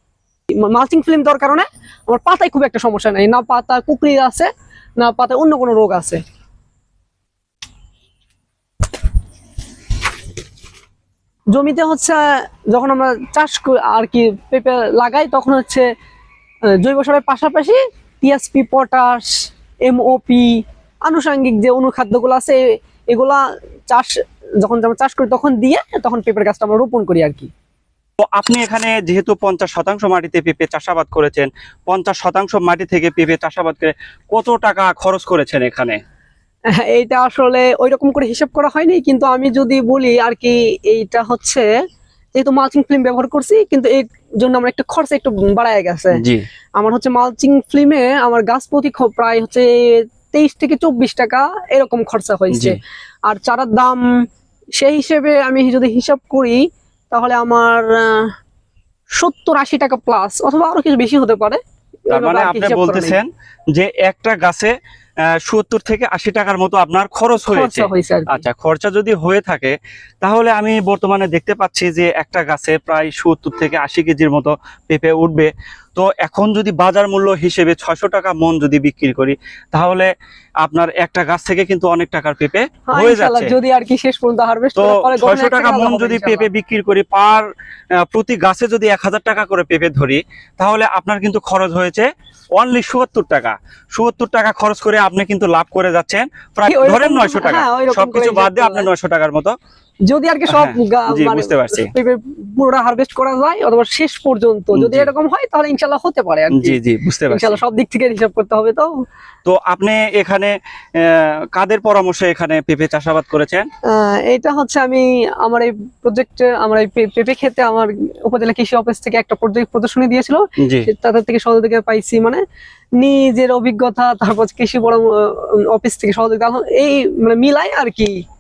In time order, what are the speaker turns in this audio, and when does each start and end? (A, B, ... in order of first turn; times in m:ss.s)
0:00.6-0:06.2 A
0:11.5-0:15.9 A
0:16.7-0:19.3 A
0:19.8-0:22.6 A
0:23.1-0:27.5 A
0:28.2-0:36.0 B
0:36.7-0:41.7 A
0:42.4-0:46.2 A
0:46.1-0:46.4 B
0:46.8-0:54.1 A
0:52.5-0:52.8 B
0:54.8-0:58.3 A
0:59.2-1:03.2 A
1:02.1-1:04.7 B
1:05.3-1:20.1 B
1:07.4-1:08.4 A
1:20.6-1:23.5 B
1:22.9-1:26.5 A
1:24.8-1:27.5 B
1:28.0-1:39.6 B
1:36.7-1:38.9 A
1:40.1-1:46.8 A
1:40.5-1:41.9 B
1:44.8-1:45.1 B
1:46.5-1:47.6 B
1:47.3-1:48.9 A
1:49.5-1:53.7 B
1:53.9-2:02.4 A
2:00.6-2:00.9 B
2:03.0-2:08.2 A